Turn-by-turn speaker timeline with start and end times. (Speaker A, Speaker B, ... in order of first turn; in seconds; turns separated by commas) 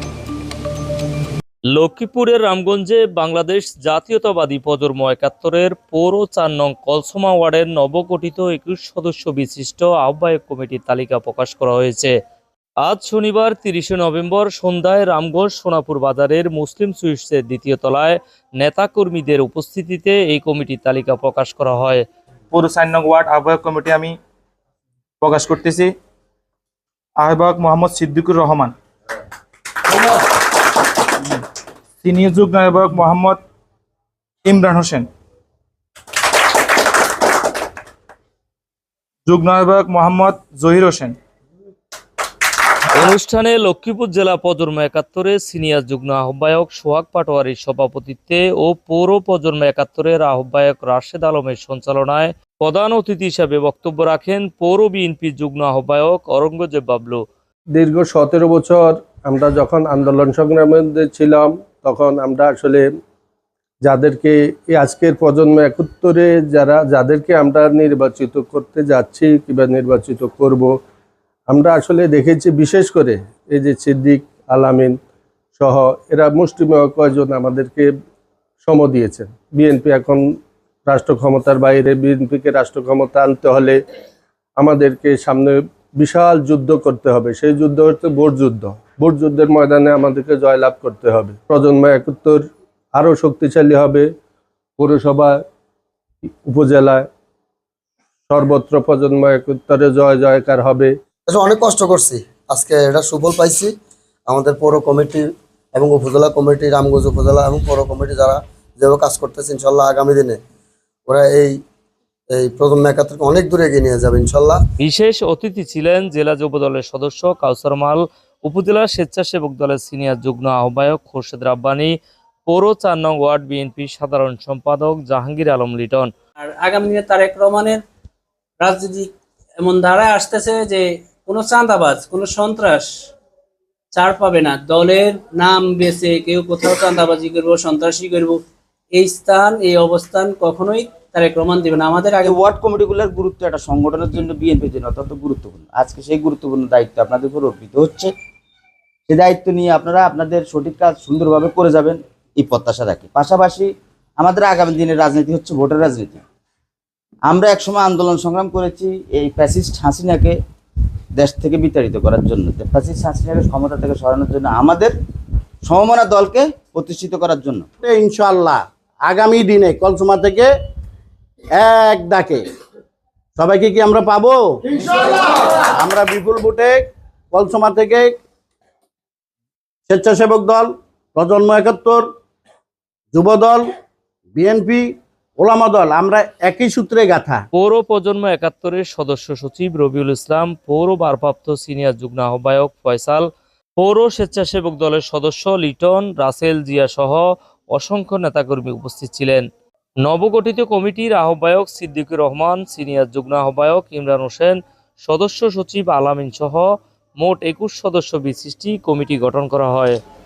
Speaker A: 1.7-12.1, Speaker A: 12.8-22.0, Speaker B: 22.5-24.2, Speaker B: 25.2-25.9, Speaker B: 27.2-28.7, Speaker B: 32.0-33.4, Speaker B: 34.4-35.1, Speaker B: 39.2-41.1, Speaker A: 42.9-57.2, Speaker C: 57.7-62.9, Speaker C: 63.8-70.7, Speaker C: 71.5-75.0, Speaker C: 75.6-77.9, Speaker C: 78.6-80.2, Speaker C: 80.8-83.8, Speaker C: 84.6-92.4, Speaker C: 92.9-94.0, Speaker C: 94.8-95.3, Speaker C: 96.5-97.0, Speaker C: 98.3-100.9, Speaker D: 101.3-103.7, Speaker D: 104.3-110.4, Speaker D: 111.1-111.6, Speaker D: 112.3-114.6, Speaker A: 114.8-121.9, Speaker A: 122.5-126.1, Speaker E: 126.4-127.8, Speaker E: 128.6-132.9, Speaker E: 133.9-138.4, Speaker E: 138.9-142.4, Speaker F: 142.2-148.1, Speaker F: 149.1-156.2, Speaker F: 157.2-160.4, Speaker F: 161.2-164.9, Speaker F: 165.6-167.7, Speaker G: 167.8-170.5, Speaker G: 171.5-172.4, Speaker G: 173.4-174.6, Speaker G: 175.8-178.1, Speaker G: 179.9-182.0, Speaker G: 183.1-183.6, Speaker G: 184.3-187.4, Speaker A: 187.5-193.3, Speaker A: 193.8-199.4, Speaker A: 200.0-206.7, Speaker A: 207.2-210.0